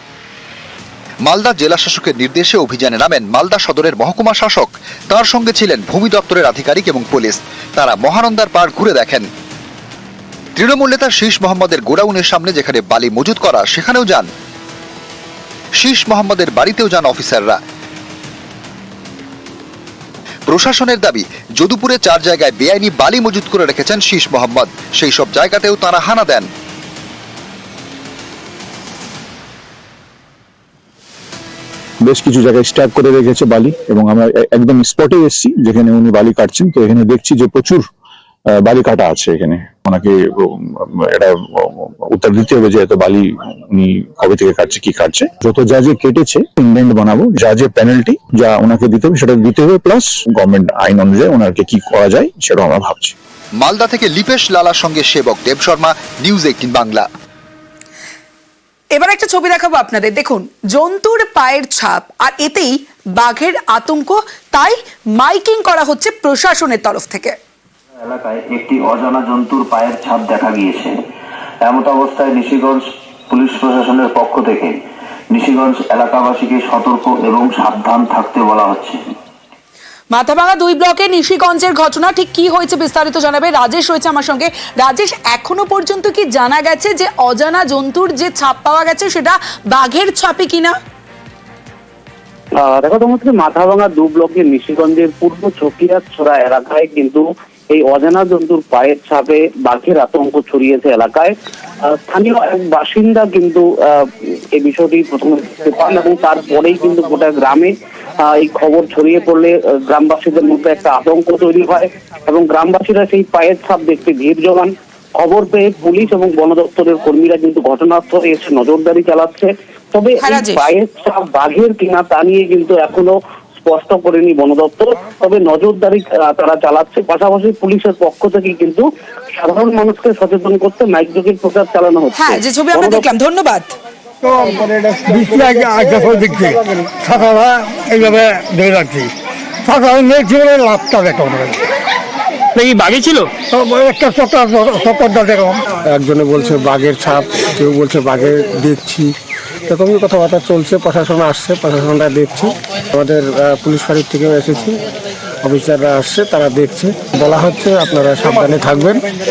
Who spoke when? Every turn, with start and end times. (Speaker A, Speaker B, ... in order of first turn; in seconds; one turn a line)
Speaker A: 1.3-9.2
Speaker A: 10.6-14.3
Speaker A: 15.8-17.6
Speaker A: 20.5-26.4
Speaker B: 32.0-37.9
Speaker B: 38.6-53.1
Speaker A: 53.6-57.0
Speaker C: 59.0-67.3
Speaker D: 68.0-71.0
Speaker D: 71.6-74.8
Speaker D: 75.3-79.0
Speaker C: 80.1-90.8
Speaker E: 92.6-101.3
Speaker E: 101.8-103.7
Speaker E: 104.5-133.1
Speaker C: 120.2-120.7
Speaker C: 132.1-133.7
Speaker F: 134.2-139.1
Speaker F: 139.7-141.5
Speaker F: 142.6-149.1
Speaker F: 149.7-154.8
Speaker F: 155.4-159.0